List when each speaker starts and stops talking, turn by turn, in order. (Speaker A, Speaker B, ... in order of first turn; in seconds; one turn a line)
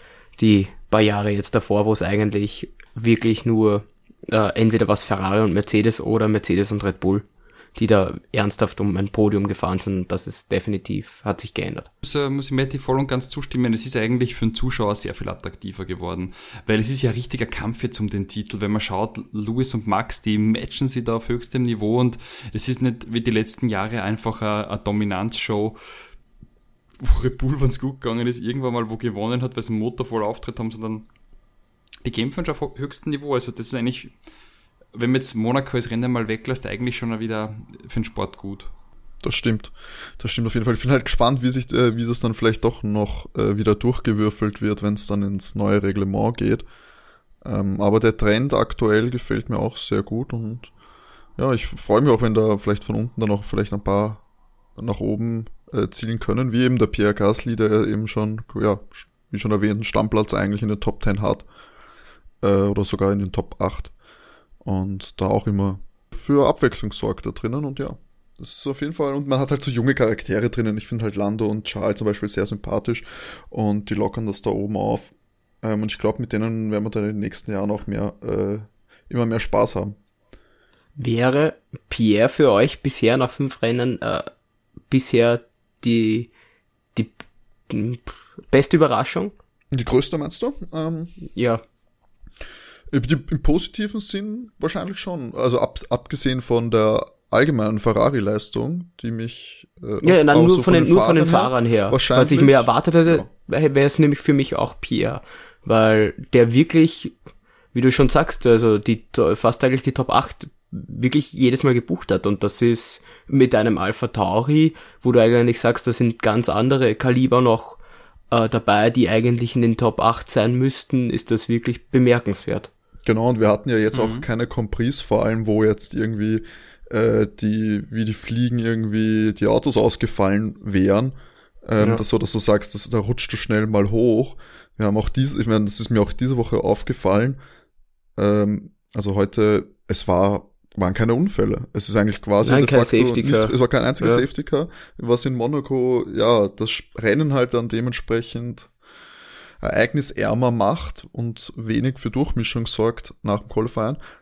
Speaker A: 0.4-11.9
Speaker B: 12.0-25.8
Speaker B: 27.0-31.1
Speaker B: 32.0-34.1
Speaker B: 34.9-38.7
Speaker C: 39.2-46.6
Speaker C: 47.4-50.7
Speaker C: 51.4-54.2
Speaker C: 54.8-61.5
Speaker C: 62.4-63.9
Speaker C: 64.6-80.0
Speaker A: 81.0-84.3
Speaker A: 84.9-86.3
Speaker A: 87.0-89.3
Speaker C: 89.7-91.2
Speaker A: 91.3-91.6
Speaker C: 92.9-103.3
Speaker A: 100.0-107.2
Speaker A: 107.7-117.8
Speaker A: 118.3-122.7
Speaker C: 123.1-131.2
Speaker B: 123.9-124.3
Speaker C: 131.7-137.4
Speaker C: 138.2-148.7
Speaker A: 142.4-144.2
Speaker C: 149.6-154.0